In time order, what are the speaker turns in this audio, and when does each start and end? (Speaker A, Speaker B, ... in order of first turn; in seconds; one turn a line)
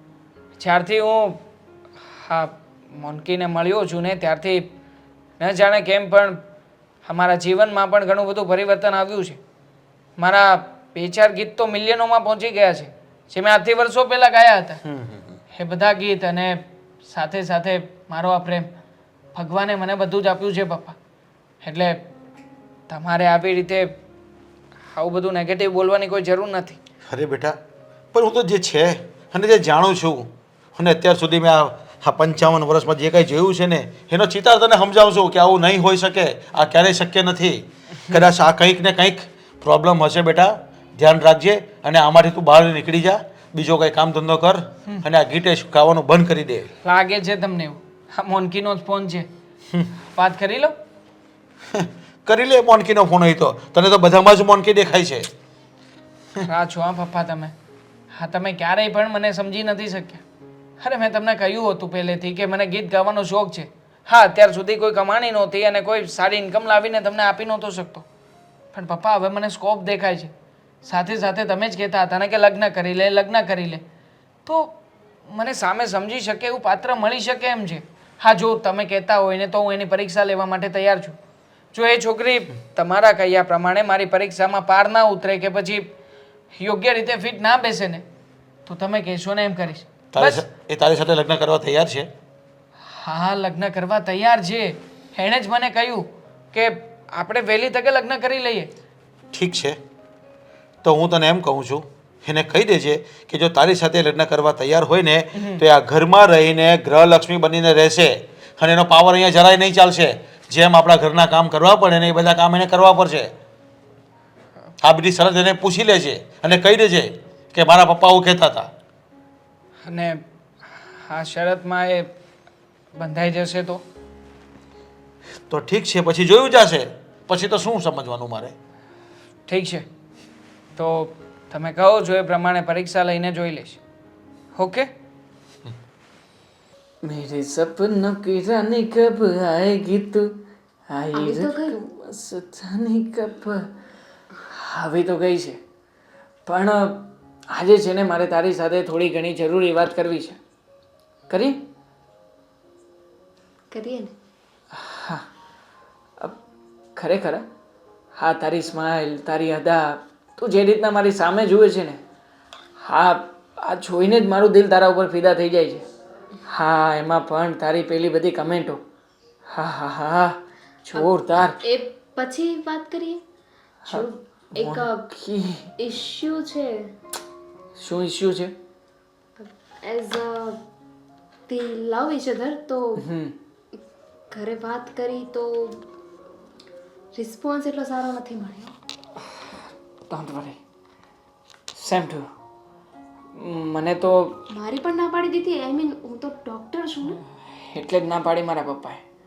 Speaker A: 0.6-1.4
Speaker A: 2.0-4.7
Speaker A: 5.4-6.4
Speaker A: 7.0-9.4
Speaker A: 10.2-14.8
Speaker B: 14.8-15.4
Speaker A: 15.5-18.7
Speaker A: 19.3-21.0
Speaker A: 21.6-22.0
Speaker A: 22.9-23.9
Speaker A: 24.9-26.8
Speaker B: 27.1-27.6
Speaker B: 28.1-46.7
Speaker A: 46.8-49.3
Speaker A: 50.1-50.7
Speaker B: 51.7-55.3
Speaker A: 56.4-57.5
Speaker A: 58.1-60.2
Speaker A: 60.8-68.0
Speaker A: 68.7-70.3
Speaker A: 70.8-73.8
Speaker A: 74.4-74.7
Speaker A: 75.3-81.2
Speaker A: 81.7-85.9
Speaker A: 86.6-88.0
Speaker A: 88.7-90.4
Speaker B: 90.1-92.1
Speaker A: 92.9-98.7
Speaker B: 99.3-99.8
Speaker B: 100.8-113.3
Speaker A: 105.3-105.6
Speaker B: 114.8-118.7
Speaker A: 119.8-122.1
Speaker A: 123.0-123.8
Speaker B: 125.5-128.5
Speaker A: 129.5-129.8
Speaker A: 130.8-133.8
Speaker A: 134.6-134.9
Speaker A: 137.0-143.7
Speaker C: 141.1-141.8
Speaker A: 144.5-145.6
Speaker A: 146.4-150.4
Speaker A: 151.3-151.6
Speaker C: 153.7-154.1
Speaker A: 154.7-155.2
Speaker A: 156.9-157.4
Speaker A: 158.2-162.0
Speaker A: 162.8-165.8
Speaker A: 166.4-168.8
Speaker A: 169.5-171.6
Speaker C: 170.9-173.2
Speaker C: 173.9-175.1
Speaker A: 174.6-175.7
Speaker C: 175.8-176.9
Speaker A: 177.8-178.5
Speaker C: 179.4-180.6
Speaker C: 181.5-183.1
Speaker A: 183.0-183.3
Speaker C: 184.3-185.8
Speaker C: 187.1-188.7
Speaker A: 189.2-189.5
Speaker A: 190.1-190.6
Speaker A: 191.7-192.3
Speaker A: 193.3-194.4
Speaker C: 194.5-197.2
Speaker A: 197.0-199.0